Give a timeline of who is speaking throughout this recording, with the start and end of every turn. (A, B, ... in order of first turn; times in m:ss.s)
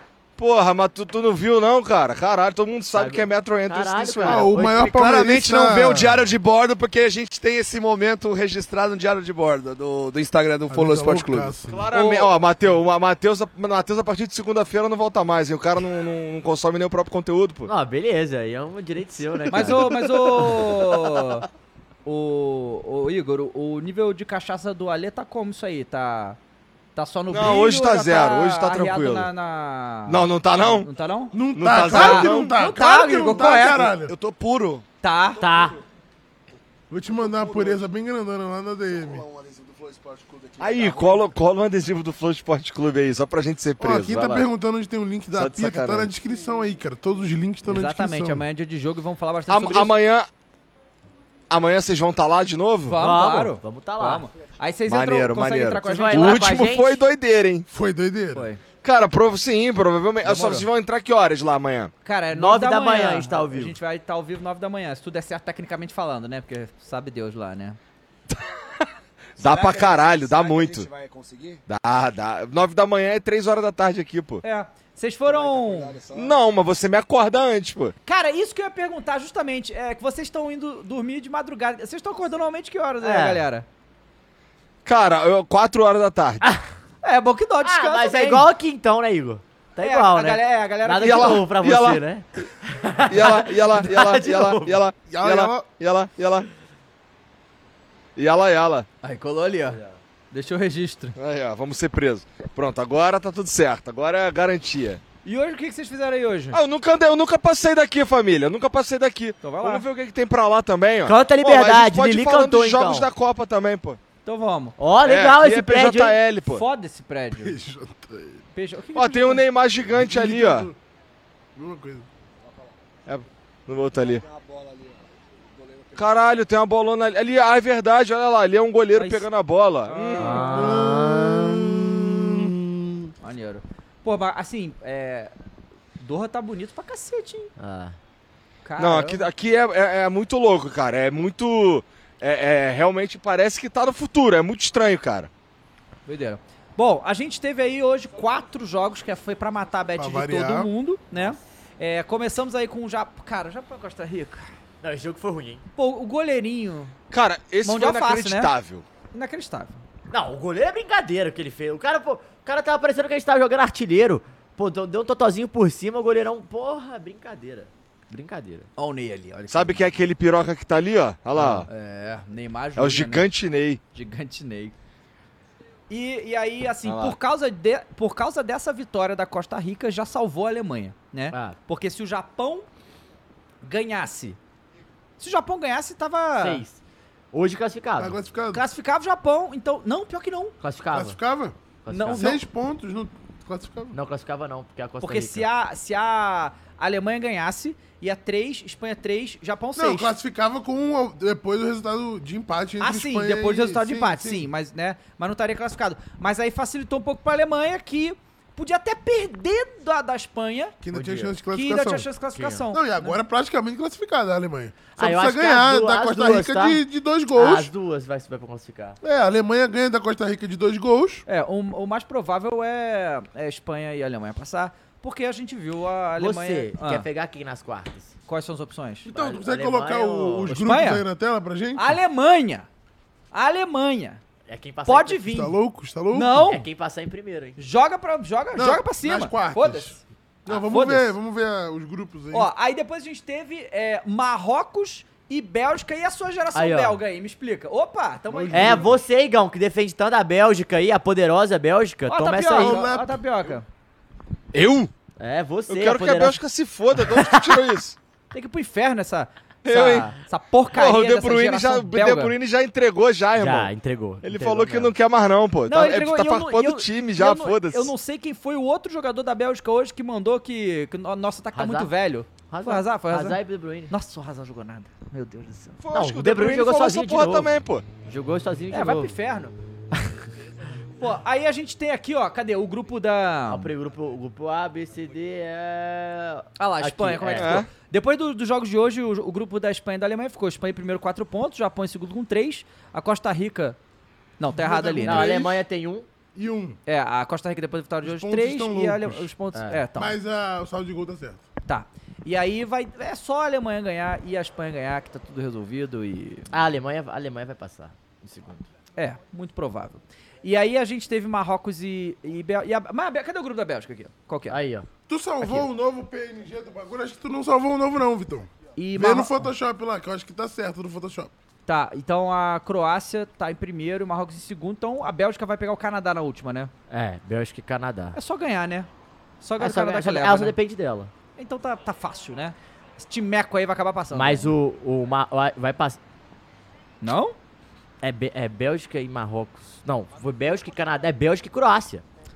0:00.4-0:04.5 A
0:02.9-0:05.2 B
0:04.2-0:06.2 C
0:04.8-0:11.5 D
0:10.7-0:11.9 C
0:11.7-0:17.7 A
0:11.9-0:12.3 E
0:17.7-0:20.6 B
0:19.5-0:21.4 E
0:22.0-0:26.4 E
0:27.0-0:31.3 E
0:27.3-0:29.3 A
0:30.1-0:30.9 A
0:31.3-0:34.1 C
0:31.6-0:32.5 A
0:31.8-0:33.9 E
0:33.3-0:34.8 D
0:35.0-0:35.4 E
0:35.4-0:35.8 B
0:36.9-0:39.2 C
0:37.2-0:37.8 D
0:38.9-0:41.3 D
0:40.6-0:44.4 A
0:43.8-0:48.4 C
0:45.3-0:46.1 A
0:47.6-0:49.9 E
0:49.5-0:50.3 A
0:51.5-0:53.0 A
0:52.9-0:56.4 E
0:52.9-0:54.2 B
0:54.9-0:57.6 A
0:55.8-0:57.0 B
0:57.7-0:58.5 C
0:58.3-0:58.6 E
0:58.8-1:01.9 A
1:00.2-1:00.7 E
1:02.0-1:07.8 E
1:02.3-1:03.8 B
1:09.4-1:10.9 A
1:09.4-1:11.6 D
1:11.7-1:14.4 A
1:14.4-1:16.0 E
1:15.2-1:16.4 D
1:16.1-1:17.9 A
1:18.0-1:23.6 E
1:23.0-1:23.4 B
1:24.8-1:26.4 A
1:27.0-1:28.5 E
1:27.6-1:34.8 B
1:29.8-1:31.4 E
1:31.0-1:32.0 A
1:33.1-1:36.5 A
1:35.0-1:35.7 C
1:38.2-1:38.9 A
1:39.0-1:39.8 E
1:39.7-1:40.0 B
1:40.3-1:41.2 E
1:41.2-1:45.0 A
1:45.2-1:46.6 E
1:46.5-1:54.0 A
1:49.4-1:49.8 E
1:51.0-1:53.1 B
1:54.2-1:54.8 E
1:54.8-1:56.2 B
1:55.0-1:56.6 A
1:56.5-1:57.6 E
1:57.4-1:58.4 C
1:58.5-1:59.4 E
1:58.9-2:00.7 A
1:59.9-2:00.7 C
2:01.6-2:02.0 C
2:03.0-2:04.2 A
2:04.1-2:05.0 D
2:05.6-2:06.0 D
2:05.9-2:10.5 A
2:08.9-2:09.2 E
2:09.9-2:10.5 E
2:10.2-2:12.5 B
2:10.4-2:12.5 C
2:13.2-2:15.3 E
2:16.0-2:17.5 E
2:17.6-2:18.0 B
2:18.6-2:19.3 E
2:18.8-2:25.3 A
2:26.1-2:34.5 E
2:30.0-2:30.7 C
2:34.8-2:35.6 B
2:35.8-2:36.9 E
2:37.1-2:38.8 A
2:37.6-2:38.5 E
2:39.1-2:39.8 E
2:40.1-2:48.7 B
2:48.8-2:49.9 E
2:49.5-2:51.7 A
2:51.3-2:51.6 B
2:51.7-2:53.3 E
2:52.8-2:53.8 A
2:53.9-2:54.7 E
2:55.9-3:02.7 E
2:56.8-2:57.2 A
3:03.6-3:04.4 E
3:05.2-3:06.6 E
3:06.4-3:06.8 B
3:07.3-3:08.2 B
3:08.0-3:08.6 C
3:08.5-3:10.6 E
3:10.6-3:11.2 B
3:10.9-3:11.6 C
3:11.8-3:12.4 B
3:11.9-3:12.4 E
3:12.2-3:14.0 C
3:13.9-3:15.5 B
3:15.0-3:20.1 E
3:19.8-3:24.5 C
3:22.8-3:30.8 E
3:30.8-3:32.1 C
3:30.9-3:31.3 B
3:31.5-3:33.2 E
3:32.3-3:32.6 B
3:32.7-3:37.7 C
3:35.0-3:36.8 B
3:37.3-3:39.0 B
3:39.0-3:41.2 C
3:41.2-3:47.1 E
3:46.2-3:48.1 B
3:48.3-3:49.1 E
3:49.0-3:52.0 C
3:49.1-3:50.6 B
3:50.5-3:51.0 E
3:51.7-3:52.7 E
3:53.3-3:54.2 E
3:54.5-3:55.3 B
3:54.8-3:55.5 E
3:55.3-3:56.4 C
3:56.1-3:56.6 E
3:56.4-3:57.6 B
3:57.6-4:01.1 E
3:58.5-4:02.5 C
4:02.3-4:08.9 E
4:06.5-4:07.0 B
4:08.3-4:09.0 C
4:08.5-4:12.8 B
4:12.1-4:13.6 E
4:12.5-4:13.6 C
4:14.5-4:14.9 A
4:15.2-4:16.4 B
4:15.7-4:18.0 A
4:16.9-4:17.6 B
4:18.3-4:22.3 E
4:19.6-4:20.1 A
4:20.7-4:23.7 A
4:23.3-4:24.9 B
4:24.2-4:27.9 A
4:25.7-4:35.8 E
4:31.5-4:31.9 B
4:32.5-4:33.9 B
4:35.8-4:37.8 A
4:35.9-4:37.5 B
4:38.0-4:39.1 B
4:38.7-4:39.5 E
4:41.0-4:43.7 E
4:43.5-4:47.7 B
4:46.6-4:53.8 E
4:47.3-4:47.7 A
4:54.4-4:55.4 E
4:54.5-4:55.6 C
4:55.0-4:56.1 B
4:56.3-4:56.8 C
4:56.8-5:00.1 E
4:58.0-4:59.3 C
4:59.5-4:59.8 B
4:59.9-5:01.4 C
5:01.6-5:06.5 E
5:06.5-5:08.7 B
5:09.0-5:14.6 E
5:14.5-5:14.9 B
5:15.1-5:21.3 C
5:18.8-5:19.4 E
5:21.6-5:26.7 E
5:26.9-5:28.2 B
5:28.1-5:28.9 E
5:29.4-5:30.5 E
5:29.6-5:31.1 B
5:31.4-5:34.5 E
5:34.1-5:36.0 B
5:37.0-5:37.4 E
5:38.0-5:42.0 B